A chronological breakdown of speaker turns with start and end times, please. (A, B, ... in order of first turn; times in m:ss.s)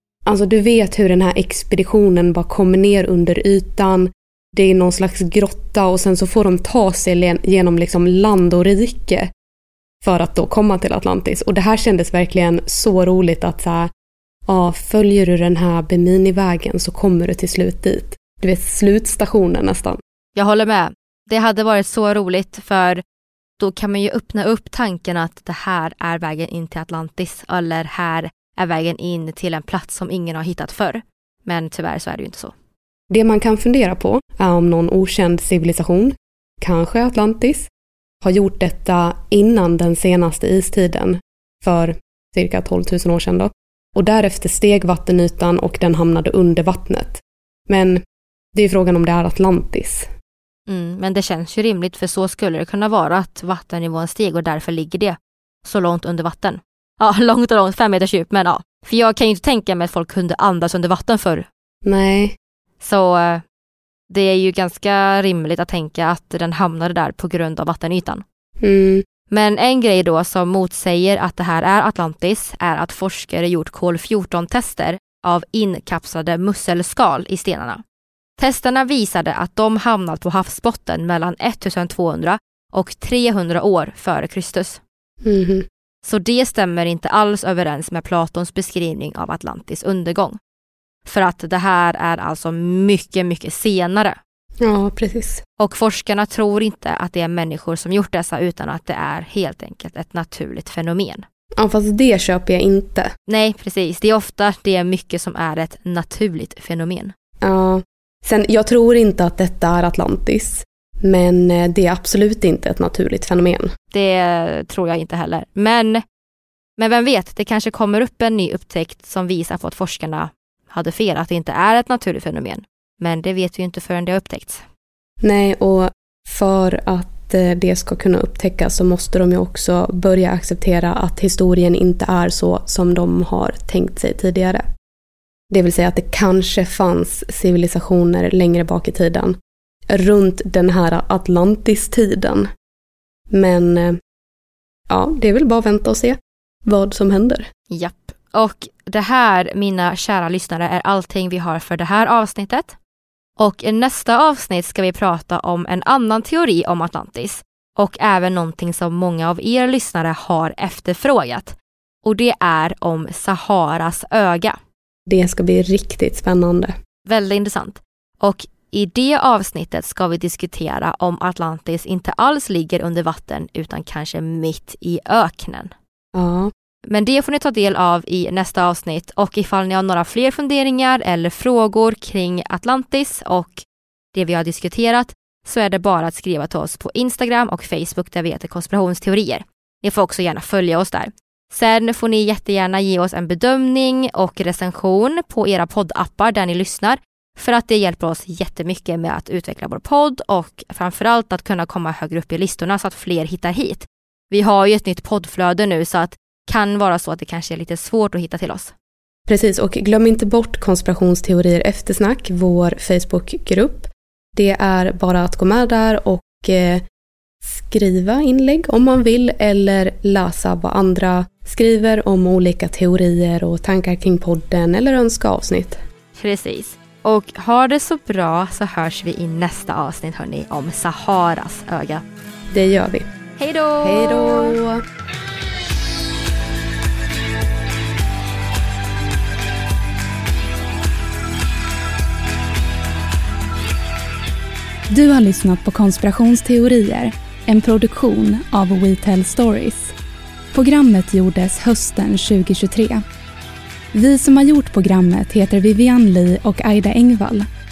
0:00.2-0:09.3 A
0:10.0-0:13.9 A
0:14.5-0:20.0 A
0:20.4-0:23.0 B
0:23.6-0:32.5 B
0:33.1-0:37.7 A
0:38.2-0:48.0 A
0:48.5-0:50.1 A
0:50.7-1:01.5 B
1:01.8-1:02.4 A
1:02.8-1:03.4 B
1:04.1-1:08.2 B
1:08.6-1:09.0 A
1:09.3-1:17.8 B
1:18.4-1:24.8 B
1:25.2-1:25.7 A
1:26.0-1:30.4 B
1:31.0-1:34.2 B
1:34.6-1:35.4 A
1:35.6-1:41.2 B
1:41.6-1:43.1 A
1:43.3-1:47.1 B
1:47.4-1:53.7 A
1:53.9-1:56.0 B
1:56.8-2:04.6 B
2:05.2-2:14.6 A
2:15.5-2:19.4 A
2:19.9-2:22.5 A
2:23.3-2:24.0 A
2:24.9-2:27.5 A
2:27.7-2:32.8 B
2:33.4-2:44.6 B
2:45.1-2:46.7 A
2:47.0-2:55.7 B
2:56.1-2:56.5 A
2:56.9-3:28.7 B
3:29.3-3:36.8 A
3:37.4-3:45.8 A
3:46.2-3:52.0 B
3:52.5-3:53.1 A
3:53.4-3:54.6 B
3:53.8-3:54.8 A
4:04.9-4:09.9 C
4:10.5-4:13.0 C
4:13.9-4:17.5 C